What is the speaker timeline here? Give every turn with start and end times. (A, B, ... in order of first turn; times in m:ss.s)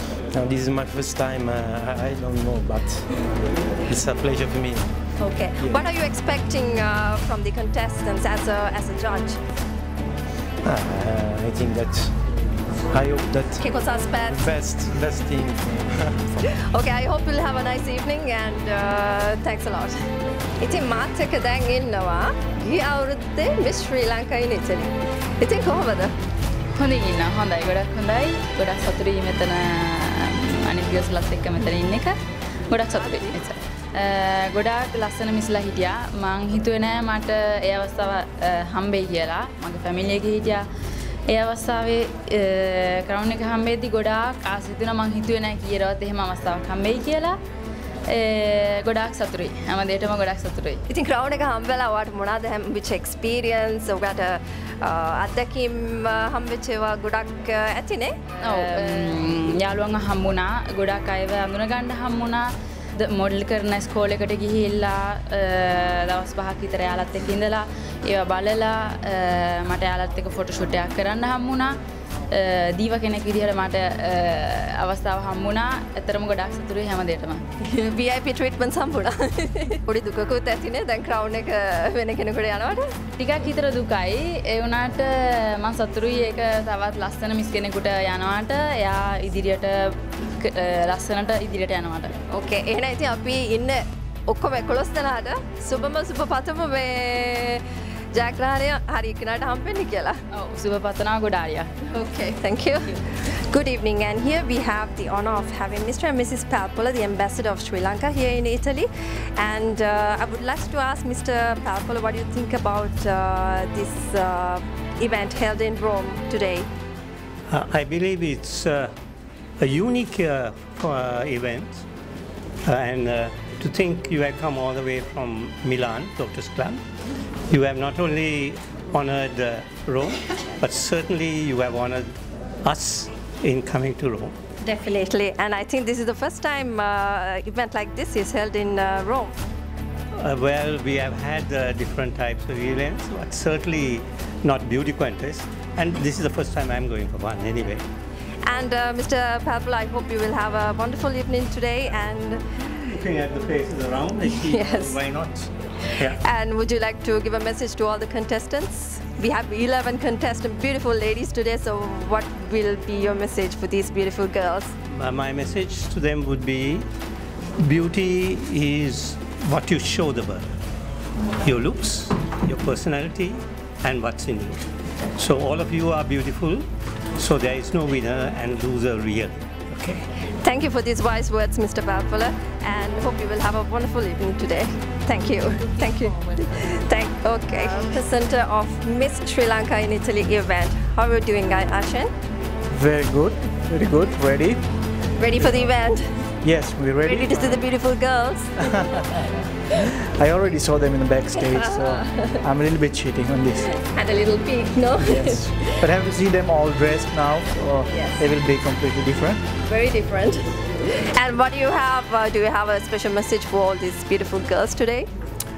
0:00.3-0:04.9 A
0:05.2-0:09.4 B
0:05.6-0:05.9 A
0:10.6-0:12.2 A
0:12.9-0:13.6 A
0:13.6-0:14.5 B
0:14.2-0:16.4 A
0:16.7-0:20.0 B
0:20.6-0:26.1 B
0:26.8-0:32.2 C
0:32.7-0:40.6 C
0:32.9-0:33.4 B
0:41.3-0:47.4 C
0:48.1-0:50.8 C
0:50.9-0:59.2 B
0:58.4-1:11.7 C
1:12.3-1:17.4 C
1:17.6-1:22.8 B
1:23.2-1:32.1 C
1:32.3-1:40.2 B
1:40.3-1:41.7 C
1:41.9-1:56.7 B
1:57.5-1:58.9 D
1:59.6-2:01.8 D
2:02.6-2:06.8 D
2:07.5-2:12.1 D
2:12.6-2:14.3 D
2:14.6-2:19.3 B
2:20.2-2:27.8 D
2:28.4-2:32.4 B
2:32.6-2:36.2 D
2:34.3-2:35.0 B
2:36.0-2:44.7 B
2:44.9-2:46.9 D
2:47.6-2:50.5 D
2:51.4-2:54.6 D
2:55.2-2:56.6 D
2:57.2-3:00.0 D
3:00.4-3:12.1 B
3:12.7-3:14.6 E
3:15.2-3:16.1 B
3:16.4-3:17.6 E
3:17.0-3:19.2 B
3:18.7-3:19.0 E
3:20.2-3:23.7 E
3:21.4-3:22.4 B
3:23.7-3:25.8 B
3:25.0-3:29.4 E
3:27.9-3:28.2 B
3:29.6-3:35.1 B